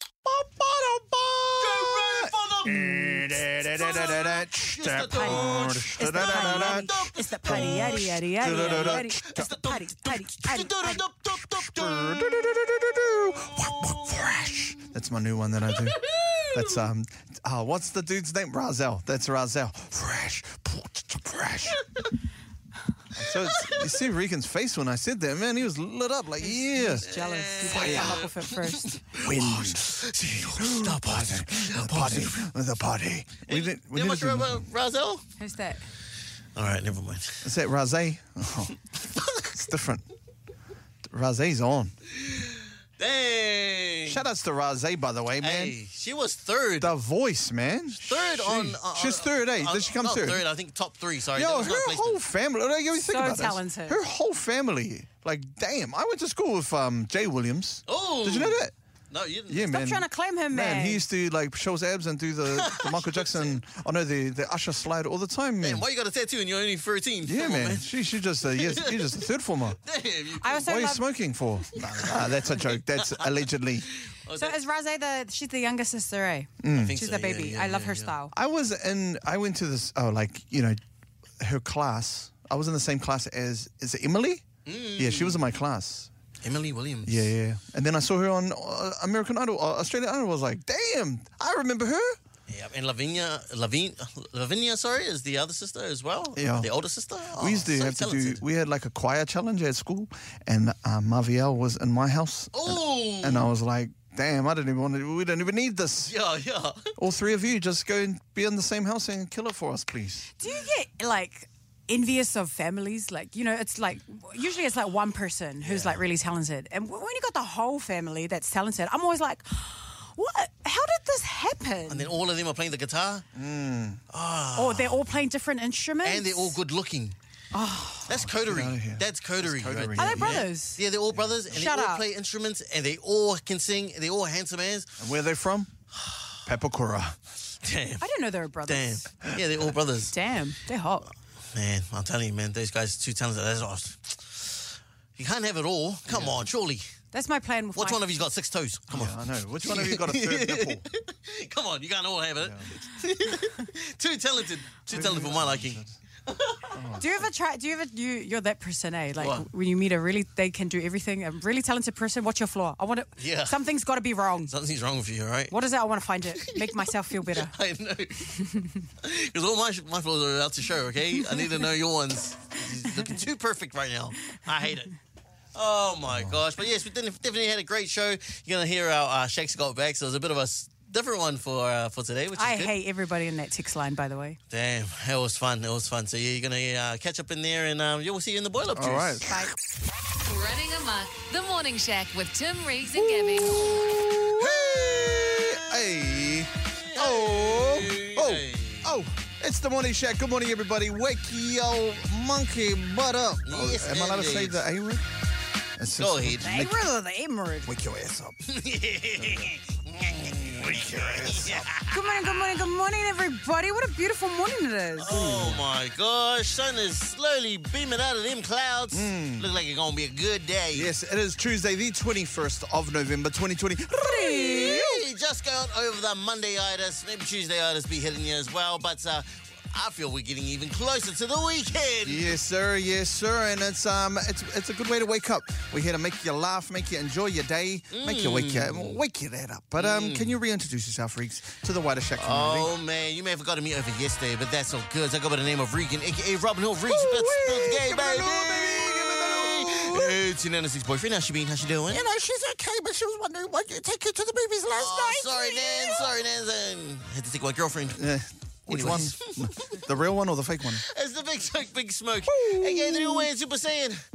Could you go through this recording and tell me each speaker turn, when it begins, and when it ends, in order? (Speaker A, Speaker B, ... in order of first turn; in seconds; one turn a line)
Speaker A: 0.2-9.5
Speaker B: 1.6-14.7
Speaker C: 5.1-11.0
Speaker A: 11.3-21.8
Speaker B: 15.7-16.9
Speaker A: 23.1-27.1
Speaker B: 23.3-23.9
Speaker C: 26.4-29.0
Speaker B: 27.1-32.5
Speaker A: 27.6-28.3
Speaker A: 29.2-34.7
Speaker B: 33.5-35.2
Speaker C: 35.4-35.9
Speaker B: 36.5-37.5
Speaker A: 37.4-38.8
Speaker B: 39.0-39.5
Speaker A: 39.5-40.0
Speaker A: 41.1-41.9
Speaker B: 42.1-44.2
Speaker A: 44.1-45.7
Speaker B: 45.4-46.9
Speaker A: 46.8-50.4
Speaker B: 48.0-52.2
Speaker A: 51.3-58.7
Speaker C: 53.0-54.0
Speaker B: 57.9-59.7
Speaker A: 59.5-65.8
Speaker C: 59.7-61.0
Speaker B: 62.5-63.5
Speaker B: 65.6-69.2
Speaker A: 67.2-69.8
Speaker B: 69.8-70.7
Speaker C: 70.4-71.0
Speaker A: 70.6-73.9
Speaker B: 71.7-74.6
Speaker C: 74.3-78.3
Speaker A: 76.6-77.0
Speaker B: 76.7-78.1
Speaker A: 78.3-80.8
Speaker A: 81.4-86.1
Speaker B: 84.7-85.4
Speaker B: 86.4-87.3
Speaker A: 87.0-92.2
Speaker B: 92.5-98.4
Speaker A: 96.3-96.7
Speaker A: 97.4-106.1
Speaker B: 102.5-103.5
Speaker B: 106.0-106.9
Speaker A: 107.0-110.3
Speaker C: 110.4-122.1
Speaker B: 115.6-116.0
Speaker B: 121.9-123.2
Speaker A: 123.3-124.0
Speaker B: 124.1-125.0
Speaker C: 124.5-126.5
Speaker B: 126.0-127.2
Speaker C: 127.5-128.1
Speaker B: 128.1-134.9
Speaker A: 128.1-130.5
Speaker C: 130.0-130.8
Speaker A: 131.1-131.4
Speaker C: 131.5-132.1
Speaker A: 135.0-135.7
Speaker B: 135.9-136.4
Speaker A: 136.4-137.2
Speaker B: 137.6-138.1
Speaker C: 138.0-139.0
Speaker B: 138.7-140.1
Speaker C: 140.1-141.1
Speaker B: 141.5-146.8
Speaker A: 146.1-146.5
Speaker C: 147.1-148.0
Speaker B: 147.7-156.8
Speaker A: 148.9-150.8
Speaker A: 152.4-152.7
Speaker A: 154.9-155.9
Speaker A: 156.7-157.2
Speaker C: 157.0-164.5
Speaker B: 159.2-159.4
Speaker B: 163.2-163.6
Speaker B: 164.5-165.5
Speaker C: 165.5-167.5
Speaker B: 166.3-174.9
Speaker C: 168.4-168.7
Speaker B: 175.5-182.7
Speaker C: 182.3-184.4
Speaker B: 184.5-189.3
Speaker A: 188.7-189.4
Speaker C: 189.2-189.5
Speaker D: 190.2-193.8
Speaker A: 192.9-205.0
Speaker B: 194.3-195.6
Speaker B: 196.8-199.0
Speaker B: 203.4-204.6
Speaker A: 205.8-206.8
Speaker B: 206.0-206.5
Speaker C: 206.4-207.7
Speaker A: 207.7-208.4
Speaker B: 208.4-212.6
Speaker A: 209.2-209.5
Speaker A: 210.2-211.7
Speaker C: 211.9-215.1
Speaker B: 215.0-220.9
Speaker A: 215.1-215.6
Speaker A: 218.9-219.5
Speaker A: 220.7-224.9
Speaker C: 224.0-224.9
Speaker B: 224.4-232.3
Speaker A: 232.0-242.7
Speaker B: 237.9-239.0
Speaker B: 239.8-240.4
Speaker B: 242.2-252.0
Speaker A: 246.8-250.2
Speaker A: 251.9-256.1
Speaker B: 254.8-258.0
Speaker A: 257.9-260.8
Speaker B: 258.7-259.8
Speaker B: 260.7-264.0
Speaker A: 262.3-263.3